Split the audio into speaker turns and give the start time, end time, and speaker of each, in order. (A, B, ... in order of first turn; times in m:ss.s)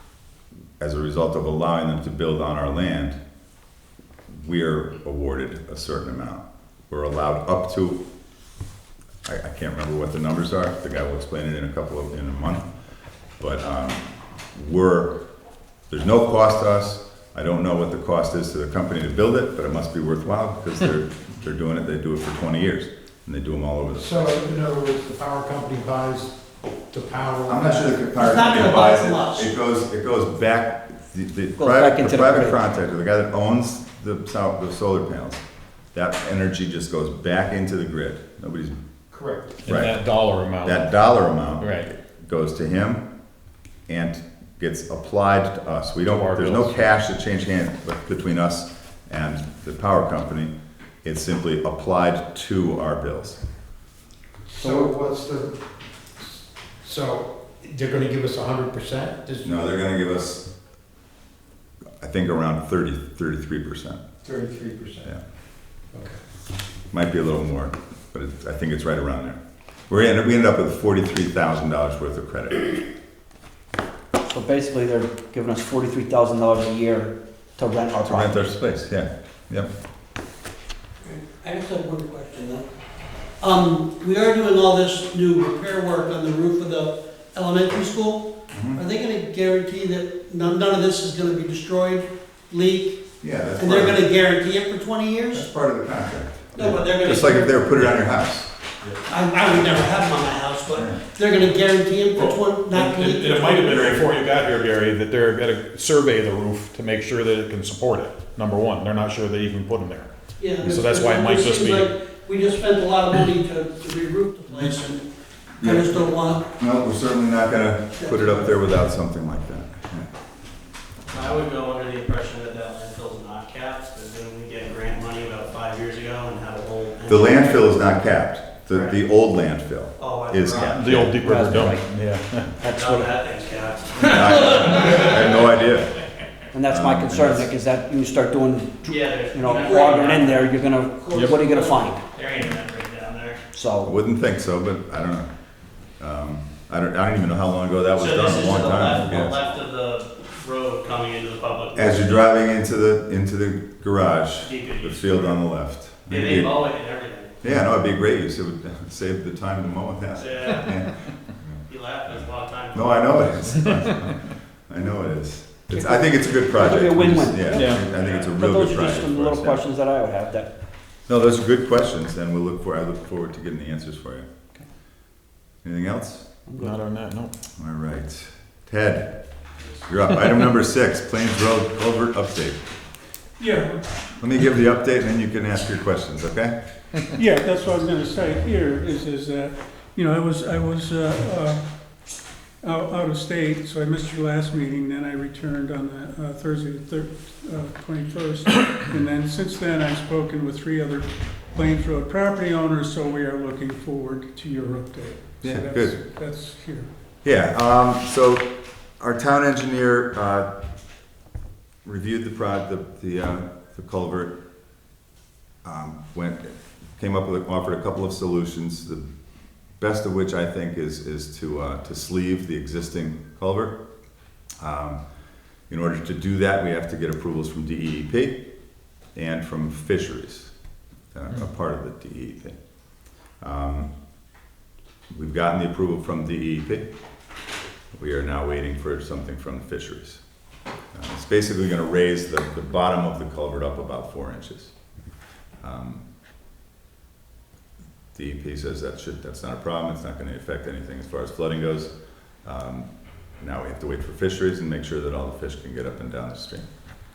0:00.8-0:03.2 A
0:04.4-0:08.0 A
0:09.2-0:12.7 A
0:13.4-0:15.2 A
0:15.9-0:24.3 A
0:23.9-0:28.1 B
0:27.5-0:35.4 A
0:28.2-0:29.5 C
0:31.6-0:32.6 D
0:35.9-0:38.8 A
0:39.1-0:39.6 B
0:39.6-0:40.9 E
0:39.7-0:40.0 A
0:40.6-0:43.1 A
0:41.6-0:41.9 E
0:43.9-0:50.5 A
0:46.1-0:46.9 E
0:51.0-0:53.4 A
0:54.5-0:55.6 B
0:56.2-0:59.6 B
0:59.4-1:00.5 A
1:02.0-1:04.0 A
1:04.2-1:05.0 B
1:05.9-1:06.2 B
1:06.9-1:12.8 A
1:14.2-1:18.5 D
1:18.0-1:19.7 A
1:21.0-1:22.6 C
1:23.4-1:33.0 C
1:28.5-1:28.8 A
1:33.2-1:34.0 A
1:33.6-1:35.5 C
1:35.3-1:38.5 A
1:36.5-1:37.7 C
1:39.1-1:44.0 C
1:40.7-1:41.0 A
1:42.1-1:51.9 E
1:43.7-1:44.0 A
1:50.4-1:55.0 C
1:55.6-2:00.1 A
1:55.6-1:56.4 C
1:58.0-1:58.6 C
2:01.1-2:07.7 F
2:07.1-2:11.1 A
2:08.7-2:09.0 F
2:10.0-2:10.8 F
2:10.6-2:12.5 E
2:11.2-2:11.9 D
2:12.6-2:13.2 D
2:12.7-2:15.3 F
2:14.0-2:15.9 A
2:16.5-2:22.0 D
2:16.7-2:17.5 A
2:18.8-2:20.5 F
2:19.5-2:19.9 C
2:21.4-2:23.4 F
2:23.5-2:23.9 D
2:23.8-2:25.3 A
2:26.0-2:29.5 A
2:28.0-2:32.1 F
2:31.7-2:36.6 A
2:34.4-2:35.4 F
2:36.0-2:37.3 F
2:37.4-2:49.6 A
2:40.2-2:40.7 F
2:41.7-2:43.6 F
2:45.7-2:50.5 D
2:47.5-2:47.8 E
2:47.8-2:48.3 F
2:51.1-2:54.2 A
2:55.6-2:56.2 A
2:56.4-2:56.8 D
2:56.6-2:57.3 E
2:57.6-2:59.1 A
2:59.8-3:02.6 A
3:03.4-3:03.8 G
3:04.2-3:06.6 A
3:07.1-3:11.6 G
3:12.6-3:26.9 G
3:25.4-3:26.0 A
3:27.2-3:30.5 A
3:31.8-3:34.4 A
3:35.6-3:39.1 A
3:39.8-3:43.7 A
3:44.6-3:45.0 A
3:45.7-3:48.4 A
3:49.1-3:50.5 A
3:51.1-3:53.9 A
3:55.1-3:56.9 A
3:58.0-4:00.2 A
4:00.9-4:04.7 A
4:05.6-4:06.0 A
4:08.1-4:11.9 A
4:12.4-4:16.6 A